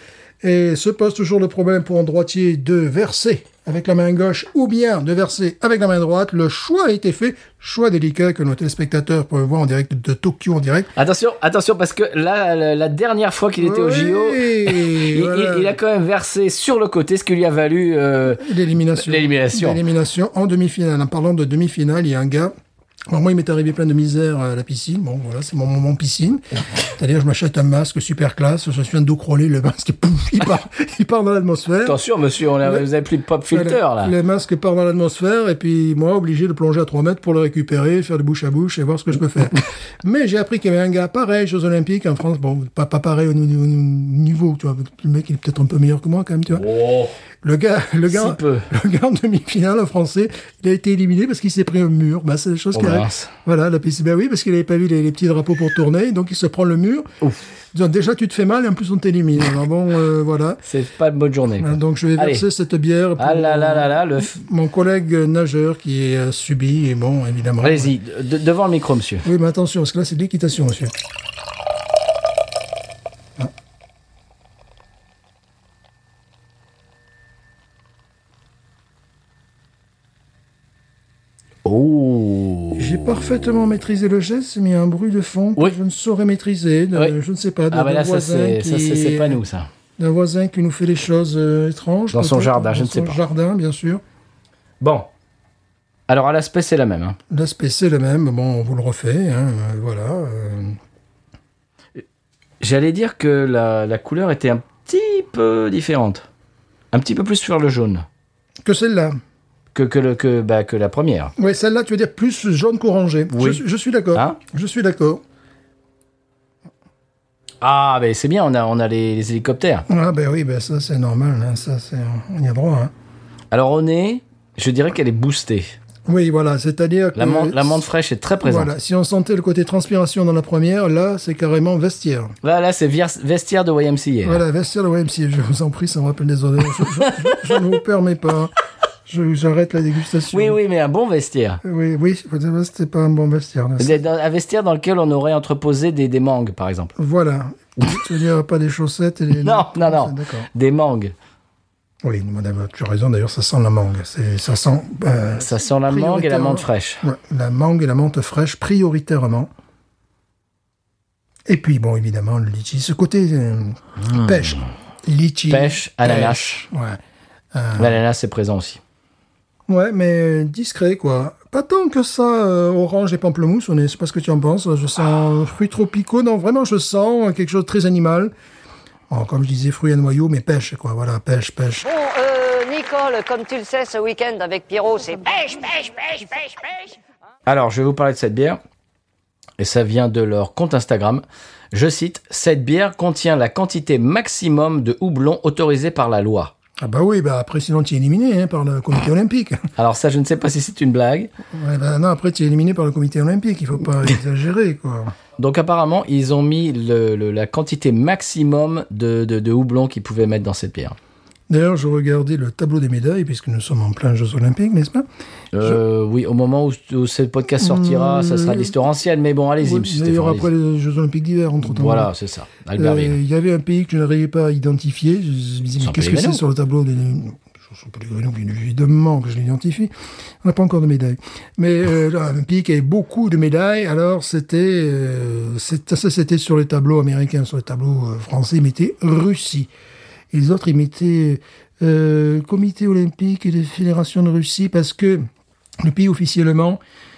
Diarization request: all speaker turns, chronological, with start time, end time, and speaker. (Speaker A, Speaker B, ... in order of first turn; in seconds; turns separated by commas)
Speaker A: 0.4-10.9, Speaker B: 11.0-19.8, Speaker A: 13.6-15.8, Speaker A: 18.4-22.5, Speaker A: 23.1-32.0, Speaker B: 31.9-34.1, Speaker A: 33.5-46.7, Speaker B: 46.5-47.1, Speaker A: 47.4-57.1, Speaker B: 48.1-48.7, Speaker B: 52.7-53.3, Speaker A: 57.7-60.6, Speaker B: 60.6-62.5, Speaker A: 61.6-67.9, Speaker B: 63.2-64.4, Speaker B: 67.6-69.3, Speaker A: 69.2-71.0, Speaker B: 81.7-83.0, Speaker A: 82.8-89.4, Speaker B: 87.7-89.7, Speaker A: 90.0-94.0, Speaker B: 92.1-93.2, Speaker B: 94.8-95.1, Speaker B: 96.1-97.2, Speaker A: 97.3-100.8, Speaker B: 102.6-106.3, Speaker B: 106.9-108.1, Speaker A: 108.7-109.2, Speaker B: 109.7-111.3, Speaker A: 111.4-115.2, Speaker B: 113.3-113.6, Speaker B: 114.1-114.4, Speaker B: 117.6-119.9, Speaker A: 119.9-122.9, Speaker B: 123.5-125.8, Speaker A: 126.1-127.8, Speaker B: 127.2-128.7, Speaker A: 128.4-132.3, Speaker B: 132.4-134.4, Speaker A: 134.2-138.5, Speaker B: 136.9-137.6, Speaker A: 139.1-140.6, Speaker B: 140.3-141.6, Speaker A: 141.6-144.0, Speaker B: 143.8-146.9, Speaker A: 147.0-150.5, Speaker B: 149.4-151.1, Speaker A: 152.0-159.5, Speaker B: 155.4-157.0, Speaker A: 161.5-167.0, Speaker B: 164.0-164.7, Speaker B: 165.5-166.7, Speaker A: 167.5-168.0, Speaker B: 167.8-168.8, Speaker A: 169.7-178.3, Speaker A: 179.1-181.9, Speaker C: 181.8-187.0, Speaker B: 187.5-188.6, Speaker B: 189.6-196.5, Speaker A: 196.8-199.6, Speaker B: 199.8-201.3, Speaker A: 201.5-205.2, Speaker B: 205.4-211.0, Speaker A: 211.5-215.1, Speaker B: 215.5-220.5, Speaker A: 217.6-218.7, Speaker A: 219.6-222.1, Speaker B: 221.6-223.2, Speaker A: 222.8-239.7, Speaker B: 225.8-226.4, Speaker A: 240.3-245.3, Speaker A: 245.8-246.8